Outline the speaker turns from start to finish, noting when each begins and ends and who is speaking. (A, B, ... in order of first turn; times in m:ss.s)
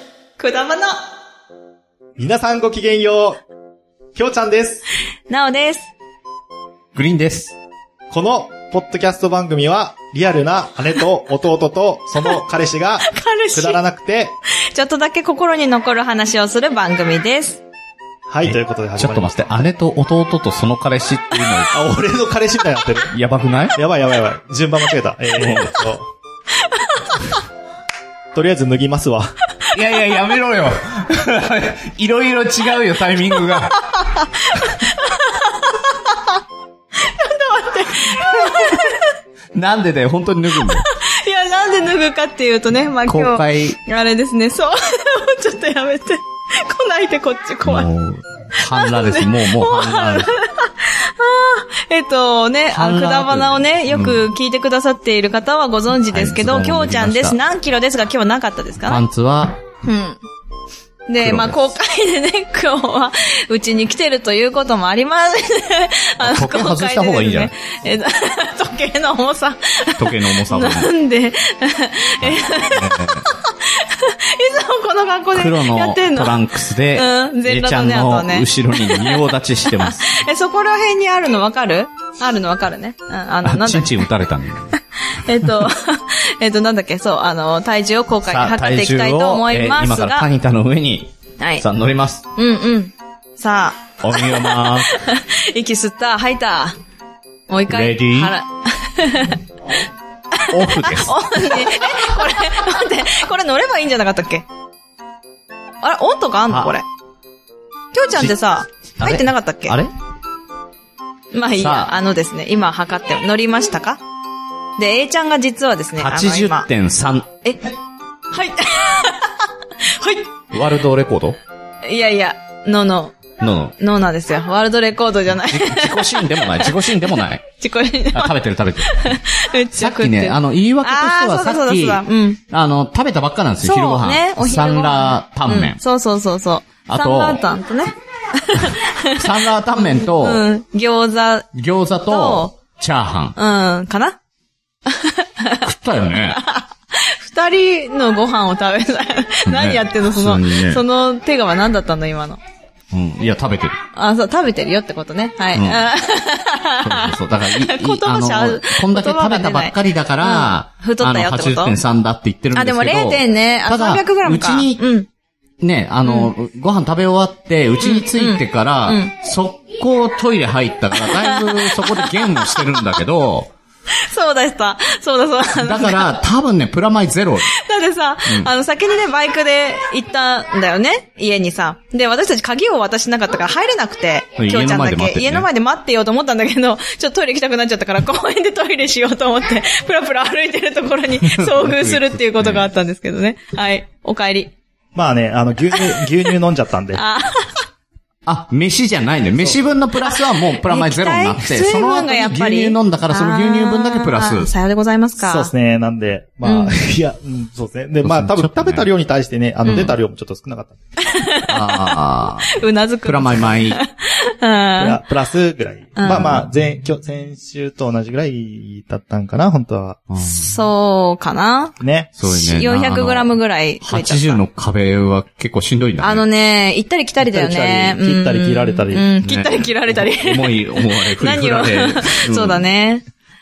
0:00.4-0:01.0 A
0:02.2-0:03.4 B
0:04.2-0:04.9 B
0:05.3-0:05.9 A
0:07.0-0:07.5 C
0:08.1-0:14.4 B
0:13.1-0:13.8 A
0:14.7-0:17.6 A
0:18.3-0:19.7 B
0:18.4-0:21.7 C
0:21.7-0:23.1 B
0:23.1-0:23.8 C
0:23.7-0:26.1 B
0:25.3-0:25.8 C
0:28.3-0:29.3 B
0:29.7-0:33.8 C
0:33.9-0:36.4 A
0:37.0-0:39.2 A
0:39.5-0:40.9 C
0:40.7-0:47.9 A
0:43.1-0:43.8 C
0:47.6-0:50.3 C
0:48.6-0:59.0 A
0:52.7-0:54.2 C
0:56.1-0:57.4 C
0:58.8-0:59.6 C
0:59.8-1:00.2 A
1:01.1-1:24.1 A
1:01.2-1:01.6 C
1:06.2-1:07.5 C
1:10.0-1:10.9 C
1:12.2-1:13.3 C
1:15.4-1:20.2 C
1:23.4-1:24.7 C
1:24.7-1:30.3 A
1:28.3-1:32.2 C
1:31.4-1:31.6 A
1:32.4-1:36.8 A
1:34.0-1:34.9 C
1:37.5-1:39.4 A
1:37.7-1:38.3 C
1:40.3-1:44.5 A
1:40.5-1:41.2 C
1:45.8-1:46.9 A
1:46.5-1:46.8 C
1:47.9-1:49.8 A
1:49.0-1:49.9 C
1:51.3-1:54.0 A
1:51.6-1:51.9 C
1:54.8-1:56.7 A
1:56.0-1:57.3 C
1:58.3-2:00.3 A
2:00.5-2:01.4 C
2:01.8-2:03.2 A
2:03.4-2:03.8 C
2:03.8-2:06.9 A
2:05.4-2:07.4 C
2:07.5-2:12.4 A
2:08.1-2:09.2 C
2:09.8-2:15.8 C
2:13.6-2:21.5 A
2:16.9-2:17.4 C
2:19.2-2:20.4 C
2:21.6-2:23.4 C
2:22.1-2:22.5 A
2:23.4-2:24.2 A
2:24.9-2:25.7 A
2:25.6-2:26.4 C
2:26.3-2:32.4 A
2:29.5-2:30.8 C
2:32.9-2:33.8 C
2:34.0-2:41.8 A
2:35.5-2:35.8 C
2:36.8-2:44.8 C
2:42.6-2:45.1 A
2:45.6-2:53.5 C
2:46.0-2:46.3 A
2:47.8-2:49.1 A
2:50.9-2:52.9 A
2:53.9-2:56.2 A
2:55.6-2:57.5 C
2:57.5-3:14.5 A
3:04.4-3:05.5 C
3:11.2-3:12.7 C
3:15.0-3:17.0 B
3:15.7-3:16.1 A
3:17.0-3:17.6 A
3:18.3-3:24.5 C
3:20.7-3:25.5 A
3:25.2-3:30.8 B
3:26.4-3:26.8 A
3:28.0-3:28.9 C
3:29.7-3:30.0 A
3:31.0-3:35.0 A
3:31.5-3:33.8 C
3:34.8-3:40.0 B
3:36.0-3:36.3 A
3:36.0-3:36.5 C
3:40.1-3:40.6 C
3:40.2-3:41.8 A
3:41.8-3:42.1 B
3:42.2-3:46.2 C
3:42.3-3:44.4 A
3:46.0-3:53.1 A
3:47.2-3:49.0 B
3:49.2-3:52.6 C